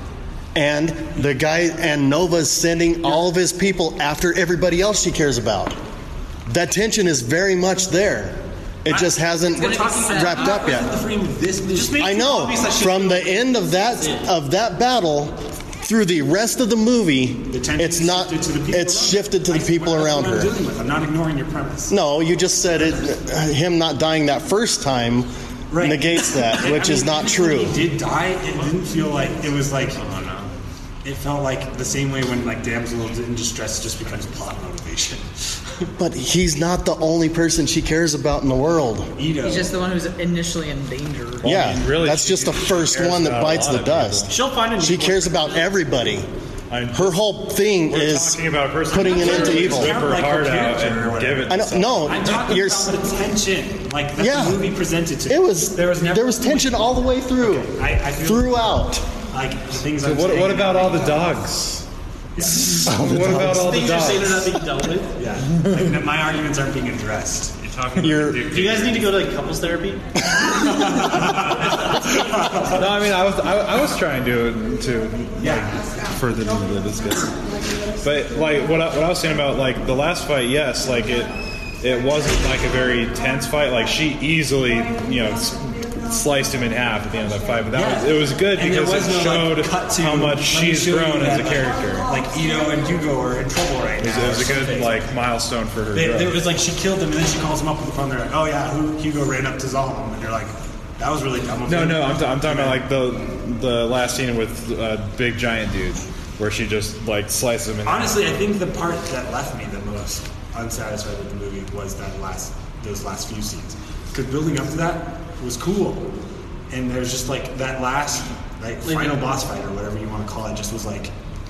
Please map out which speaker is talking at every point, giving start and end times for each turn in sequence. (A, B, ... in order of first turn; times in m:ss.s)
0:00.5-0:05.8 A
0:06.4-0:10.9 A
0:08.9-0:12.2 B
0:09.5-0:10.8 C
0:11.7-0:14.3 D
0:12.0-0:20.6 A
0:17.5-0:21.9 B
0:21.9-0:27.9 A
0:25.7-0:30.0 B
0:29.9-0:30.5 E
0:31.0-0:35.9 B
0:36.0-0:39.1 A
0:39.2-0:39.8 B
0:39.4-0:41.5 C
0:41.4-0:46.3 A
0:41.5-0:44.3 F
0:44.3-0:46.0 D
0:46.7-0:47.3 F
0:46.9-0:50.0 A
0:47.8-0:52.6 F
0:49.0-1:01.5 B
0:51.5-0:53.0 A
0:54.2-0:59.0 A
1:00.0-1:01.8 F
1:02.4-1:02.9 B
1:02.4-1:04.6 F
1:02.8-1:04.0 A
1:03.5-1:05.2 D
1:05.2-1:07.6 B
1:07.6-1:09.2 E
1:08.0-1:08.6 A
1:08.4-1:10.0 D
1:10.3-1:11.0 A
1:10.4-1:13.0 B
1:12.7-1:17.4 F
1:15.4-1:15.8 B
1:18.0-1:32.1 F
1:27.7-1:35.1 B
1:34.0-1:36.4 F
1:35.9-1:42.8 B
1:41.7-1:48.4 F
1:47.8-1:56.1 B
1:56.7-2:01.1 B
1:58.8-1:59.3 D